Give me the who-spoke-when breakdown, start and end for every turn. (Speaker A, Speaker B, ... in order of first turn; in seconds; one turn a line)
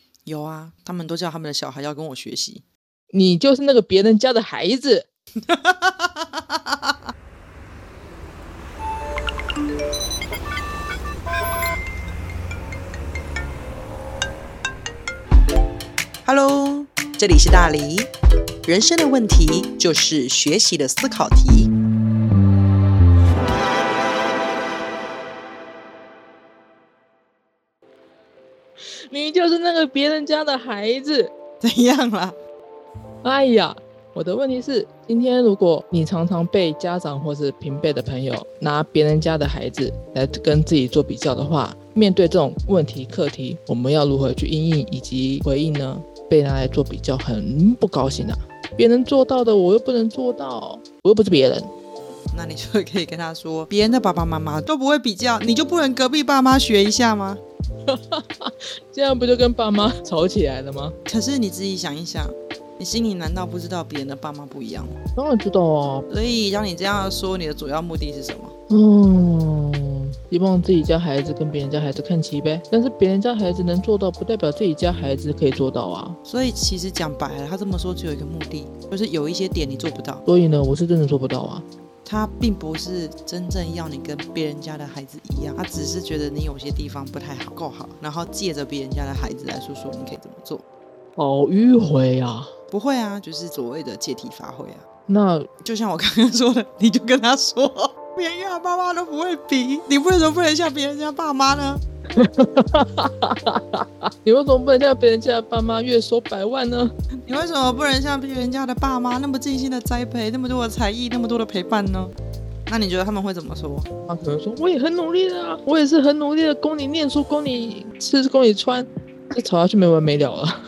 Speaker A: 0.3-2.6
Speaker B: 3.1-5.1
Speaker A: 5.5-6.9
Speaker A: 16.2-18.1
Speaker A: 18.6-21.7
Speaker B: 29.1-31.3
Speaker A: 31.6-32.4
Speaker B: 33.2-51.7
Speaker A: 52.3-57.4
Speaker B: 57.9-61.0
Speaker A: 61.1-65.0
Speaker B: 65.2-66.1
Speaker A: 66.1-68.5
Speaker B: 68.7-76.2
Speaker A: 76.2-80.2
Speaker B: 80.3-81.7
Speaker A: 82.0-90.7
Speaker B: 91.2-92.5
Speaker A: 92.7-94.8
Speaker B: 95.1-95.5
Speaker A: 95.6-101.8
Speaker B: 102.2-106.9
Speaker A: 107.3-112.2
Speaker A: 112.7-113.9
Speaker B: 114.1-120.6